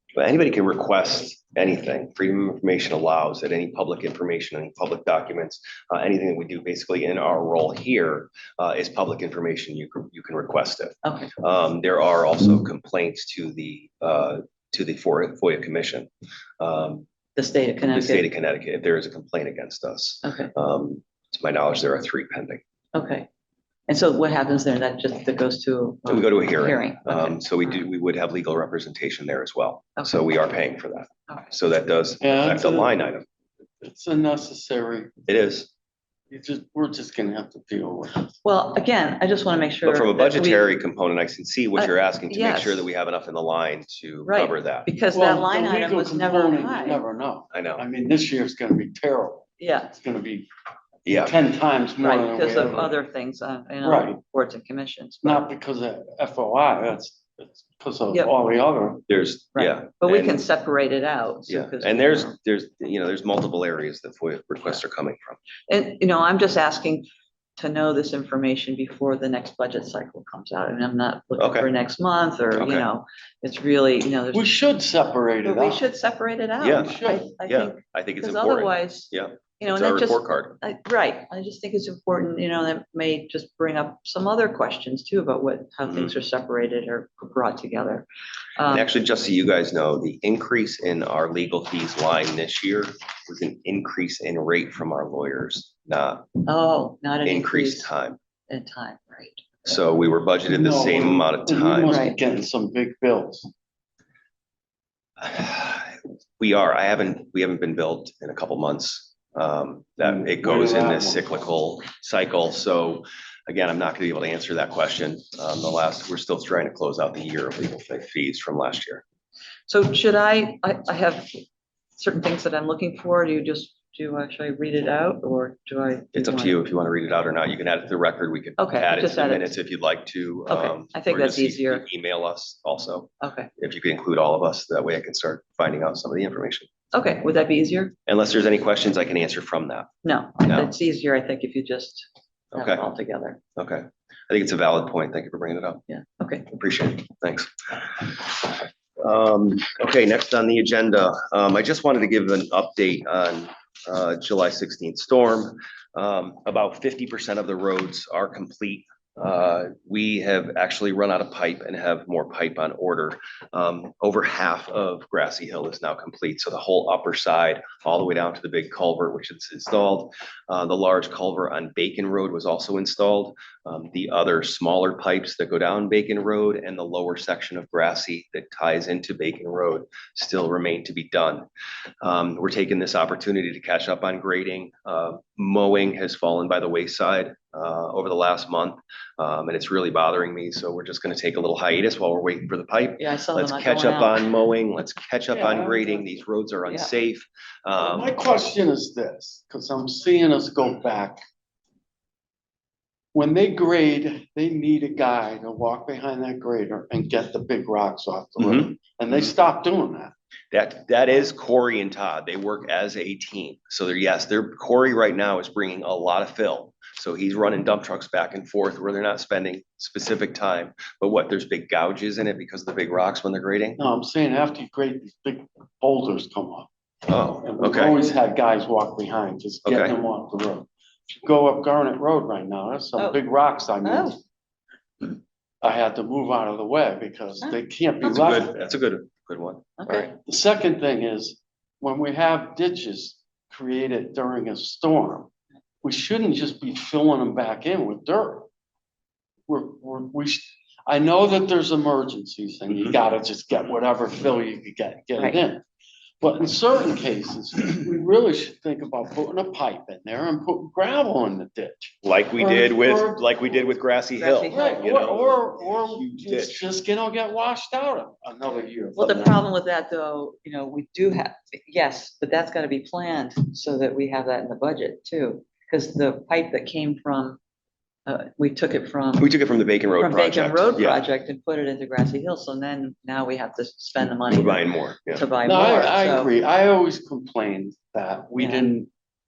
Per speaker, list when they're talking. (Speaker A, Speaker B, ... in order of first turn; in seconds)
Speaker A: 0.1-16.1, 16.6-17.1, 17.9-22.6, 26.1-33.2, 35.3-35.7, 39.9-44.9, 47.5-47.8, 51.1-51.4, 59.1-60.4, 61.5-65.4, 71.4-71.7, 72.5-72.9, 76.6-80.6, 85.9-86.1, 88.7-96.3, 97.2-98.2, 99.7-102.0, 105.2-119.0, 126.2-136.7, 138.1-139.9, 140.4-140.7, 142.5-142.9, 143.6-145.8, 146.5-181.5, 182.0-198.2, 208.4-208.7, 210.5-223.8, 227.1-228.1, 229.7-230.0, 238.0-239.7, 262.0-266.6, 279.2-281.0, 284.3-285.2
Speaker B: 11.0-11.3, 17.4-18.3, 20.2-20.5, 22.9-23.3, 23.9-27.8, 38.4-40.8, 41.8-42.9, 44.3-47.0, 49.6-49.9, 52.0-55.5, 59.5-62.4, 65.7-67.1, 67.6-74.5, 75.5-88.9, 96.5-97.9, 98.5-99.5, 101.9-102.2, 119.7-121.4, 122.0-126.6, 128.6-129.6, 130.5-131.8, 133.2-133.5, 136.9-137.9, 140.0-143.4, 145.9-146.5, 193.0-194.3, 195.3-196.0, 233.8-234.2, 239.8-240.2, 264.2-264.9, 269.0-277.4, 278.1-279.3, 280.0-286.3, 288.4-288.7
Speaker C: 32.2-32.9, 33.8-35.1, 36.3-38.3, 45.1-50.5, 51.1-53.0, 53.8-54.2, 55.2-59.0, 74.3-75.8, 76.8-77.3, 100.5-103.5, 110.0-111.4, 197.8-201.2, 203.1-210.1, 223.8-226.7, 227.4-234.2, 235.6-238.5, 239.9-245.3, 245.8-248.5, 249.5-255.6, 256.2-263.3, 264.5-269.4, 285.4-288.9